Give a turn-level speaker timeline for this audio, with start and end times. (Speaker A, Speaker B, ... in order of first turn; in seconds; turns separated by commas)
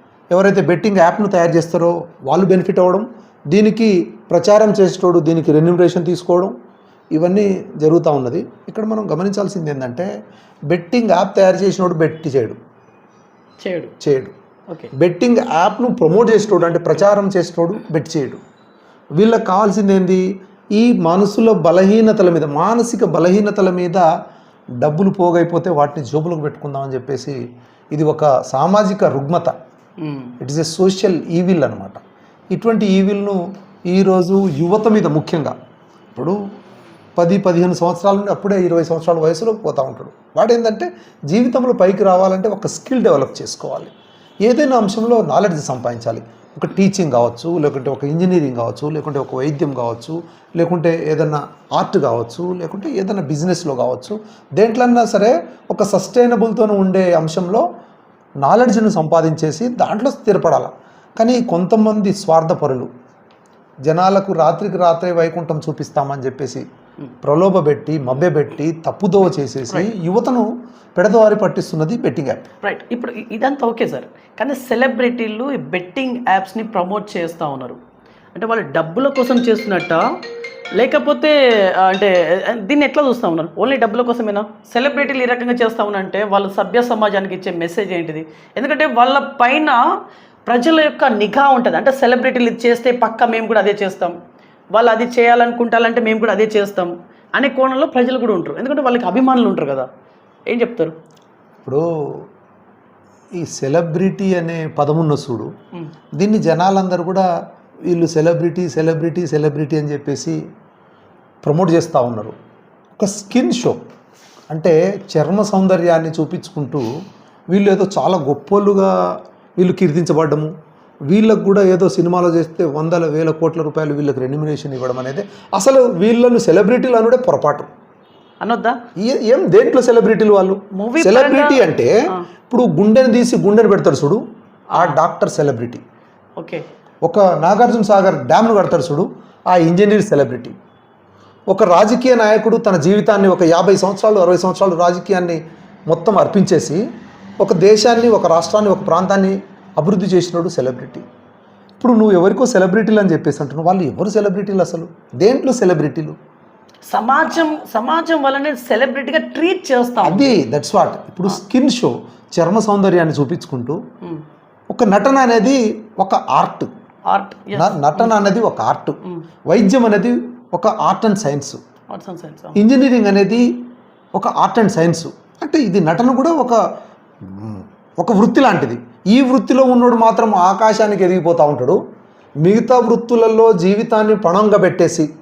Speaker A: 0.3-6.5, Speaker A: 7.1-10.1, Speaker A: 10.7-12.6, Speaker B: 13.6-13.9, Speaker A: 14.0-14.3, Speaker A: 14.9-18.4, Speaker A: 19.2-20.2, Speaker A: 20.7-24.1, Speaker A: 24.8-27.4, Speaker A: 27.9-29.5, Speaker B: 30.0-30.3, Speaker A: 30.4-32.0, Speaker A: 32.5-35.5, Speaker A: 37.2-43.9, Speaker A: 44.4-57.6, Speaker A: 58.4-62.9, Speaker A: 63.8-66.6, Speaker A: 67.2-72.4, Speaker B: 72.6-77.8, Speaker B: 78.3-80.0, Speaker B: 80.8-89.8, Speaker B: 90.5-94.2, Speaker B: 94.7-99.9, Speaker B: 100.5-100.9, Speaker A: 101.6-102.2, Speaker A: 103.4-105.5, Speaker A: 106.2-107.3, Speaker A: 107.9-110.4, Speaker A: 111.4-112.3, Speaker A: 113.0-113.8, Speaker A: 114.5-116.9, Speaker A: 117.5-118.9, Speaker A: 119.6-120.5, Speaker A: 121.1-127.7, Speaker B: 128.4-128.8, Speaker A: 129.0-131.9, Speaker B: 130.8-132.2, Speaker A: 132.5-134.2, Speaker A: 134.7-135.8, Speaker B: 136.4-136.7, Speaker A: 137.0-140.5, Speaker A: 141.5-146.8, Speaker A: 147.4-151.0, Speaker A: 151.8-156.2, Speaker B: 156.9-160.4, Speaker A: 160.0-163.8, Speaker A: 164.7-166.7, Speaker B: 167.1-168.2, Speaker A: 167.5-171.6, Speaker B: 171.9-172.6, Speaker A: 172.5-173.5, Speaker A: 174.1-176.6, Speaker A: 177.2-181.8, Speaker A: 182.4-185.1